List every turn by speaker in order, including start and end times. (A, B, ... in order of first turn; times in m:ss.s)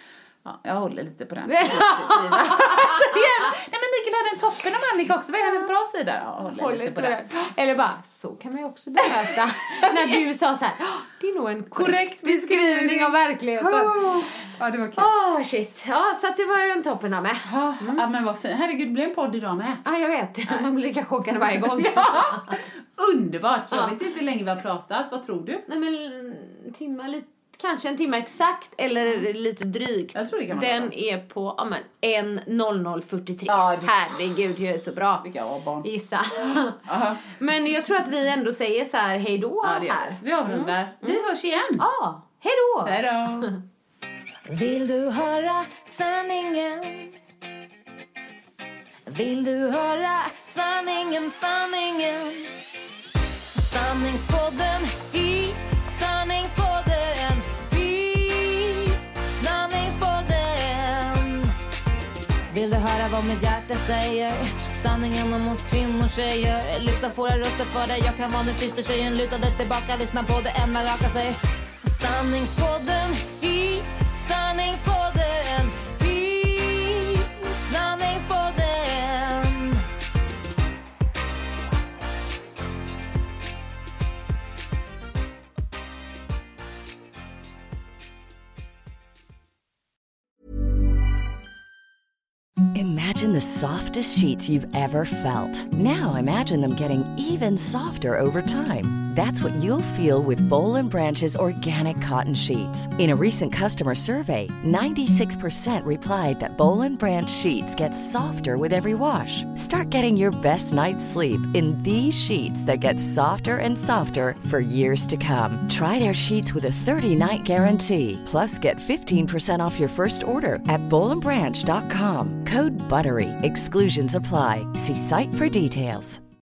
0:00.4-0:07.3 A
0:01.4-0:03.5 B
0:06.6-0:14.4 B
0:09.0-0:10.2 A
0:11.7-0:15.1 A
0:15.0-0:18.0 B
0:17.4-0:19.8 A
0:19.8-0:22.6 B
0:21.3-0:25.6 A
0:25.7-0:35.2 B
0:30.1-0:30.9 A
0:33.5-0:34.2 A
0:35.2-0:35.9 A
0:35.8-0:41.2 B
0:36.4-0:37.3 A
0:39.6-0:41.8 A
0:41.8-0:43.6 B
0:42.8-0:43.5 A
0:44.5-0:47.1 C
0:49.1-0:52.5 C
0:53.5-1:01.5 C
1:02.5-1:19.8 C
1:32.7-2:06.2 D